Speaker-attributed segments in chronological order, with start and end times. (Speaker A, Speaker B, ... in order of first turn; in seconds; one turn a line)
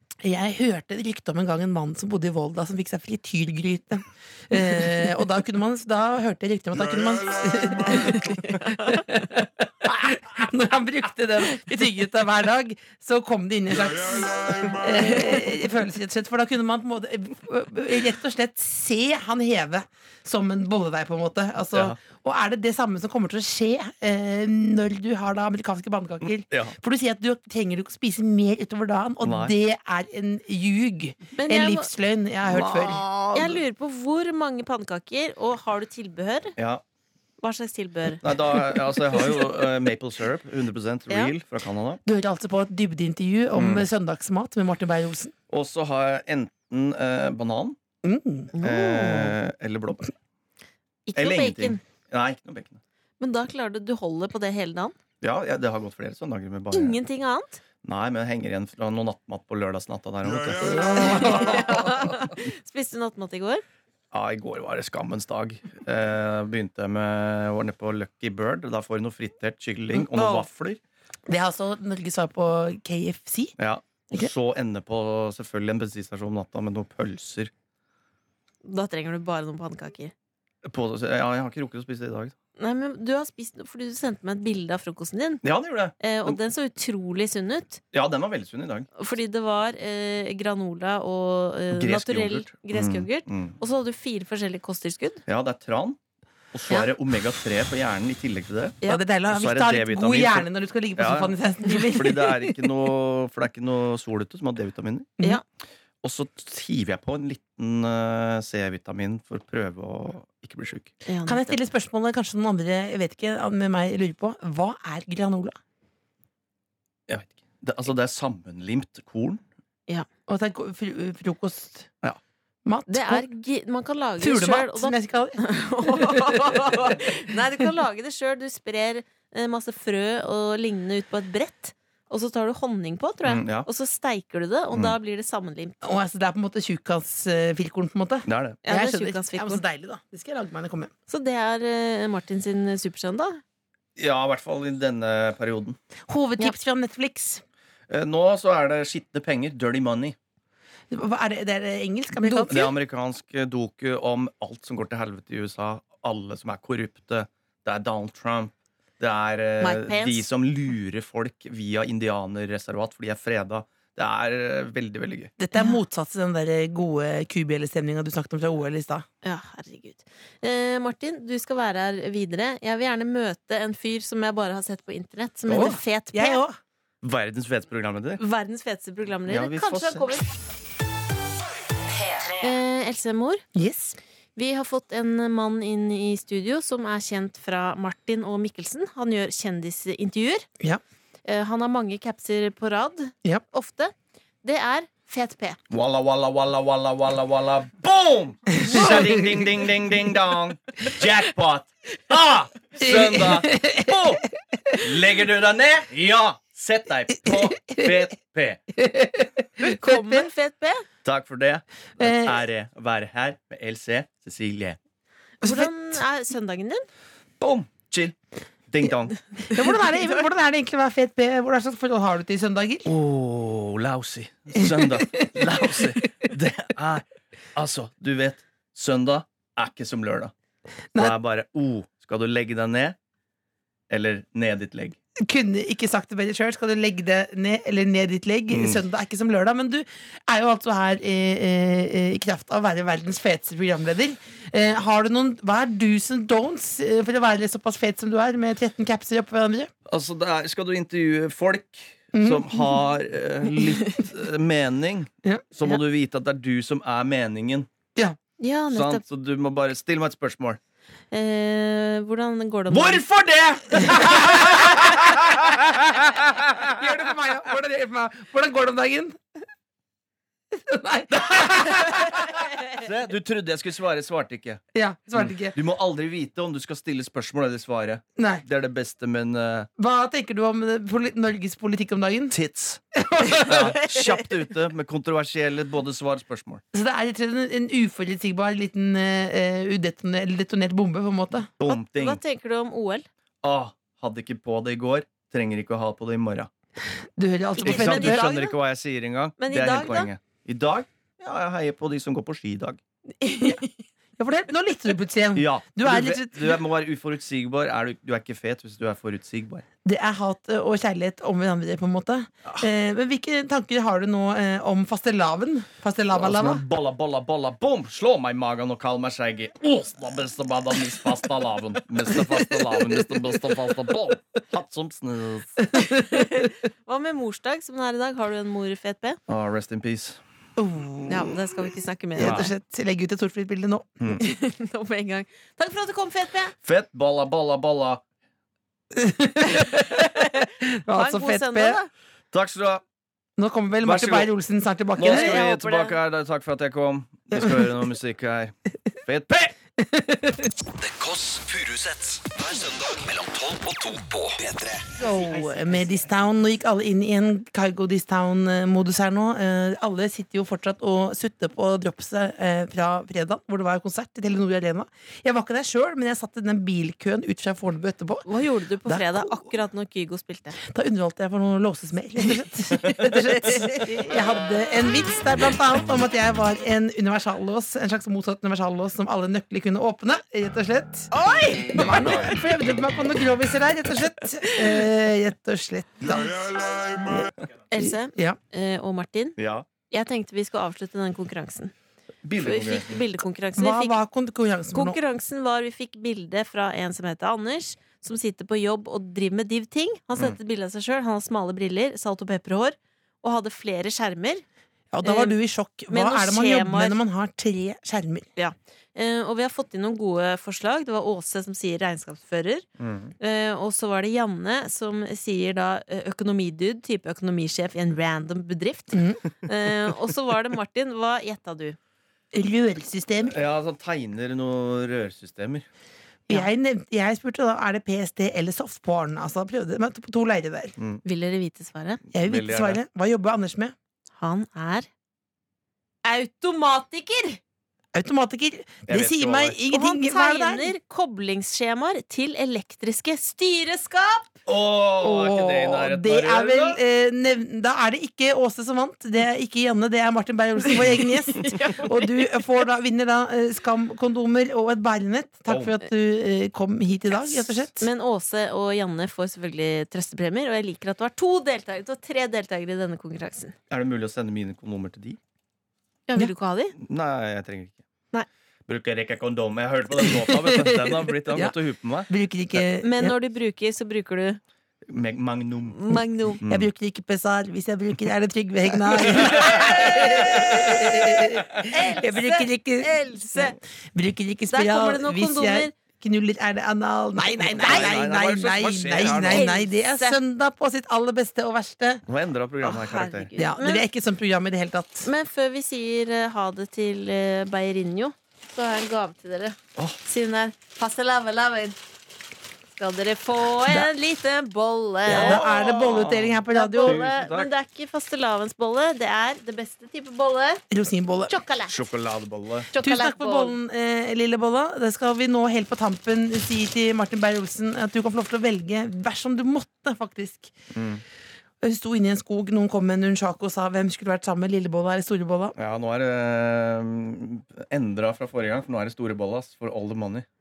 Speaker A: 0.2-33.0
Speaker B: 8.1-9.0
Speaker C: 26.5-26.7
Speaker C: 29.2-29.6
Speaker B: 31.4-31.9
Speaker C: 32.5-33.6
Speaker B: 33.3-36.5
Speaker C: 36.6-36.8
Speaker B: 37.4-38.2
Speaker C: 38.2-42.0
Speaker A: 42.0-45.3
Speaker C: 43.5-43.9
Speaker C: 45.5-47.8
Speaker A: 48.0-48.5
Speaker B: 48.5-49.3
Speaker C: 48.6-50.1
Speaker B: 51.1-51.8
Speaker C: 51.2-52.8
Speaker B: 53.2-55.0
Speaker C: 55.2-57.0
Speaker B: 56.7-57.6
Speaker C: 57.8-62.2
Speaker A: 60.6-62.0
Speaker B: 61.0-63.6
Speaker C: 64.1-70.8
Speaker A: 69.9-70.4
Speaker A: 71.3-73.6
Speaker C: 73.6-77.5
Speaker B: 78.6-80.1
Speaker C: 80.6-82.3
Speaker B: 82.6-85.4
Speaker C: 85.4-86.4
Speaker B: 86.0-87.8
Speaker C: 87.9-88.9
Speaker B: 89.0-95.2
Speaker C: 91.7-93.6
Speaker C: 95.3-96.0
Speaker C: 96.5-98.8
Speaker A: 98.9-102.5
Speaker C: 99.3-101.3
Speaker C: 101.9-105.2
Speaker C: 106.0-110.9
Speaker B: 111.1-111.5
Speaker A: 111.3-115.6
Speaker C: 117.1-119.4
Speaker A: 120.3-121.9
Speaker A: 122.7-123.3
Speaker B: 122.9-135.8
Speaker A: 124.2-126.6
Speaker C: 133.2-133.7
Speaker A: 135.8-140.9
Speaker C: 138.3-138.6
Speaker B: 138.7-139.6
Speaker B: 141.1-143.4
Speaker C: 144.0-145.8
Speaker A: 146.1-147.4
Speaker C: 147.9-150.2
Speaker A: 150.9-152.7
Speaker B: 152.2-152.6
Speaker C: 152.5-165.3
Speaker B: 159.6-160.2
Speaker A: 165.4-169.1
Speaker B: 169.2-176.4
Speaker A: 175.5-176.6
Speaker C: 177.0-178.2
Speaker B: 178.2-180.3
Speaker C: 179.3-180.1
Speaker B: 182.4-183.4
Speaker A: 183.6-184.0
Speaker B: 184.4-190.5
Speaker B: 191.2-195.6
Speaker C: 195.7-208.6
Speaker A: 198.6-199.4
Speaker A: 202.8-204.8
Speaker A: 207.2-208.0
Speaker A: 208.8-210.3
Speaker B: 209.6-210.8
Speaker C: 211.0-214.8
Speaker A: 212.0-212.4
Speaker B: 215.4-216.8
Speaker A: 215.4-215.7
Speaker C: 217.4-218.2
Speaker C: 218.7-219.2
Speaker A: 219.5-222.9
Speaker C: 222.9-227.0
Speaker A: 224.6-225.9
Speaker C: 227.6-230.3
Speaker C: 231.0-233.0
Speaker C: 233.9-235.0
Speaker A: 235.2-249.7
Speaker C: 238.5-238.8
Speaker C: 249.9-257.7
Speaker A: 252.1-252.8
Speaker A: 255.2-255.8
Speaker B: 258.4-259.0
Speaker C: 258.7-260.6
Speaker B: 261.1-263.0
Speaker C: 262.7-266.7
Speaker A: 263.8-264.8
Speaker A: 266.1-269.2
Speaker A: 270.5-272.3
Speaker C: 272.7-274.6
Speaker A: 274.7-275.6
Speaker C: 275.2-279.7
Speaker A: 278.2-278.4
Speaker A: 279.8-282.4
Speaker C: 282.3-282.8
Speaker A: 282.9-283.8
Speaker C: 283.4-286.6
Speaker A: 286.7-291.5
Speaker C: 291.6-292.2
Speaker B: 291.7-293.1
Speaker C: 293.4-296.5
Speaker A: 297.2-298.2
Speaker B: 297.6-298.6
Speaker C: 297.6-302.8
Speaker B: 299.4-300.1
Speaker B: 303.2-303.7
Speaker A: 304.2-306.6
Speaker C: 305.4-309.6
Speaker A: 309.9-316.6
Speaker C: 316.1-325.6
Speaker A: 325.7-326.1
Speaker B: 325.9-329.2
Speaker C: 329.3-330.2
Speaker A: 330.6-331.4
Speaker B: 331.1-332.5
Speaker A: 332.2-334.1
Speaker C: 332.2-332.5
Speaker B: 334.2-336.5
Speaker C: 336.6-338.0
Speaker A: 338.9-341.8
Speaker B: 339.6-341.9
Speaker C: 342.3-342.8
Speaker A: 343.4-345.4
Speaker C: 343.8-344.3
Speaker C: 345.0-349.5
Speaker B: 345.0-346.0
Speaker A: 349.8-350.5
Speaker D: 350.8-354.9
Speaker A: 354.9-368.3
Speaker B: 368.3-370.6
Speaker A: 368.9-369.4
Speaker A: 370.6-381.1
Speaker B: 373.1-374.1
Speaker B: 381.1-382.2
Speaker A: 381.7-388.4
Speaker B: 387.7-389.4
Speaker C: 389.4-389.7
Speaker B: 389.9-391.7
Speaker C: 392.2-393.0
Speaker B: 392.4-394.0
Speaker A: 393.6-395.0
Speaker B: 394.7-404.4
Speaker A: 404.9-408.3
Speaker B: 405.0-405.4
Speaker B: 405.9-407.0
Speaker B: 408.4-412.6
Speaker C: 412.8-413.1
Speaker B: 413.2-421.8
Speaker A: 418.9-419.2
Speaker A: 422.3-423.4
Speaker C: 423.3-425.7
Speaker A: 426.3-430.7
Speaker C: 430.8-431.0
Speaker B: 431.1-432.0
Speaker A: 432.1-433.8
Speaker C: 432.2-432.8
Speaker B: 434.2-434.9
Speaker B: 436.1-437.4
Speaker A: 437.9-440.7
Speaker C: 438.9-439.6
Speaker B: 439.7-444.3
Speaker C: 444.5-446.8
Speaker A: 445.0-457.9
Speaker B: 450.8-452.4
Speaker C: 455.5-455.7
Speaker B: 457.3-463.6
Speaker C: 463.7-465.2
Speaker B: 466.1-466.8
Speaker C: 466.8-467.8
Speaker C: 468.7-472.1
Speaker A: 469.9-471.6
Speaker A: 472.1-473.2
Speaker B: 472.8-474.4
Speaker C: 474.9-476.7
Speaker B: 475.7-476.4
Speaker A: 476.4-492.0
Speaker C: 479.2-479.6
Speaker B: 479.6-480.7
Speaker B: 481.7-483.6
Speaker B: 484.5-485.7
Speaker C: 487.5-489.5
Speaker B: 487.6-487.9
Speaker B: 489.3-490.2
Speaker C: 492.1-493.3
Speaker B: 492.6-493.9
Speaker A: 493.4-495.1
Speaker B: 495.0-501.8
Speaker B: 502.8-505.4
Speaker A: 505.1-507.0
Speaker C: 505.1-507.5
Speaker B: 506.5-510.6
Speaker A: 510.7-511.3
Speaker B: 511.3-511.8
Speaker C: 511.7-512.7
Speaker B: 512.7-513.6
Speaker A: 512.8-520.5
Speaker C: 520.7-521.0
Speaker A: 521.6-525.6
Speaker C: 525.6-530.3